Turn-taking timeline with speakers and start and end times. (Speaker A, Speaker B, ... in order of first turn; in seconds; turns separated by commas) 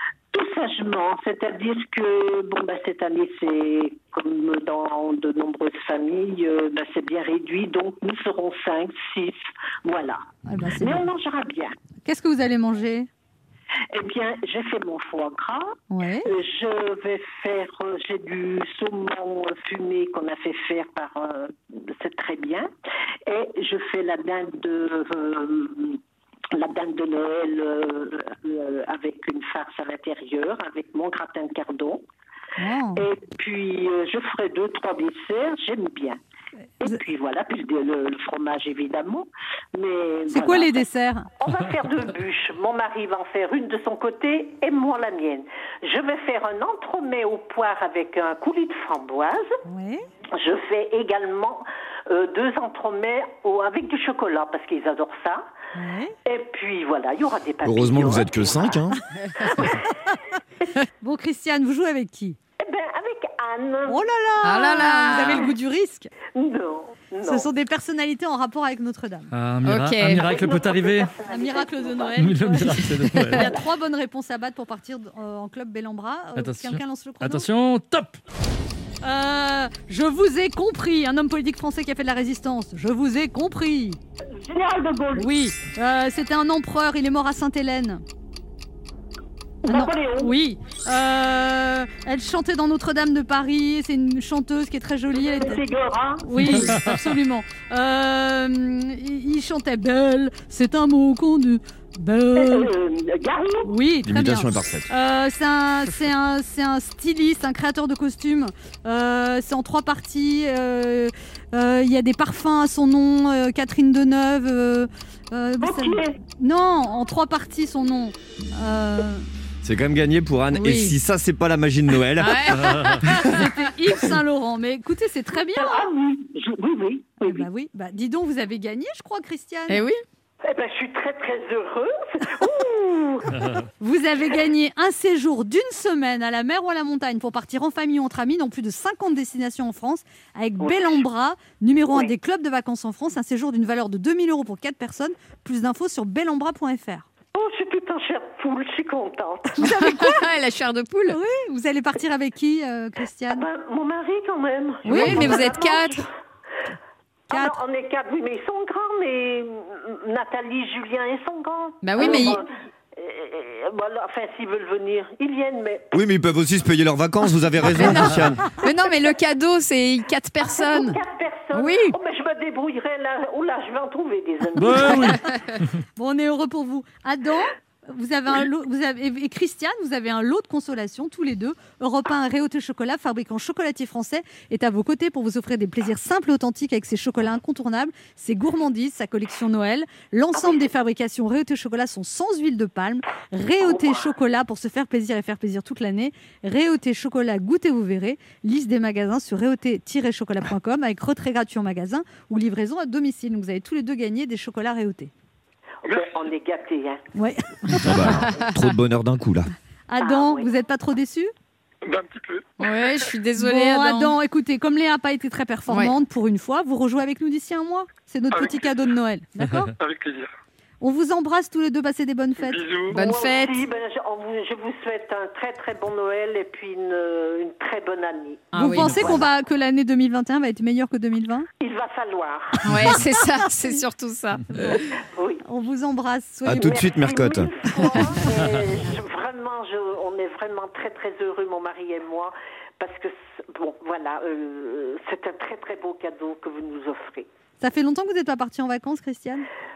Speaker A: 0.3-10.2, Speaker B: 10.4-11.1, Speaker A: 10.8-11.8, Speaker B: 12.0-13.1, Speaker A: 13.9-22.7, Speaker B: 15.9-16.3, Speaker A: 23.2-26.0, Speaker A: 26.5-32.0, Speaker B: 32.6-33.0, Speaker A: 32.9-36.2, Speaker A: 36.8-40.8, Speaker B: 40.3-41.3, Speaker A: 41.4-49.5, Speaker B: 49.6-50.0, Speaker A: 50.4-55.5, Speaker B: 55.8-56.1, Speaker A: 56.2-58.9, Speaker C: 57.6-59.0, Speaker B: 61.0-62.4, Speaker A: 62.6-64.0, Speaker B: 63.9-66.1, Speaker D: 64.4-65.5, Speaker A: 66.3-67.5, Speaker B: 67.2-69.3, Speaker E: 69.3-71.1, Speaker D: 69.6-70.3, Speaker A: 70.3-72.3, Speaker B: 71.3-77.5, Speaker E: 72.2-73.4, Speaker E: 76.3-78.2, Speaker B: 79.0-84.0, Speaker A: 84.4-85.3, Speaker B: 85.2-88.0, Speaker A: 89.6-90.3, Speaker B: 89.7-95.6, Speaker A: 95.1-96.7, Speaker B: 96.2-102.7, Speaker E: 96.6-96.9, Speaker A: 102.3-103.7, Speaker B: 103.6-119.3, Speaker C: 104.0-104.9, Speaker A: 115.6-116.2, Speaker C: 119.6-122.7, Speaker D: 120.5-120.9, Speaker D: 122.2-123.5, Speaker B: 123.2-125.9, Speaker A: 125.5-127.5, Speaker B: 127.2-129.8, Speaker D: 129.7-130.0, Speaker A: 130.4-133.3, Speaker B: 133.8-147.1, Speaker A: 140.6-141.0, Speaker A: 147.3-149.6, Speaker B: 149.6-150.2, Speaker D: 149.7-151.2, Speaker B: 151.1-153.4, Speaker A: 153.3-156.1, Speaker D: 154.8-156.1, Speaker B: 154.8-155.6, Speaker A: 157.3-166.0, Speaker B: 157.3-157.6, Speaker D: 161.8-162.4, Speaker C: 165.9-168.5, Speaker D: 167.7-171.0, Speaker A: 170.6-175.2, Speaker D: 171.5-172.0, Speaker E: 174.6-175.2, Speaker B: 175.9-205.1, Speaker A: 190.3-190.6, Speaker A: 193.6-194.1, Speaker A: 205.8-207.1, Speaker F: 205.8-206.1, Speaker B: 207.1-208.2, Speaker C: 207.8-209.5, Speaker B: 209.9-211.3, Speaker A: 210.0-210.5, Speaker F: 211.8-212.8, Speaker D: 212.6-214.2, Speaker B: 213.4-219.7, Speaker D: 215.7-215.9, Speaker F: 218.3-218.7, Speaker F: 219.8-220.3, Speaker B: 220.8-222.6, Speaker F: 222.4-223.0, Speaker D: 222.9-223.6, Speaker A: 222.9-228.5, Speaker D: 228.5-229.2, Speaker B: 228.5-231.5, Speaker A: 231.6-232.7, Speaker D: 232.6-234.6, Speaker B: 232.8-233.8, Speaker B: 234.5-234.8, Speaker A: 235.0-235.4, Speaker B: 235.4-236.8, Speaker C: 236.4-237.5, Speaker A: 236.5-247.3, Speaker B: 247.6-249.5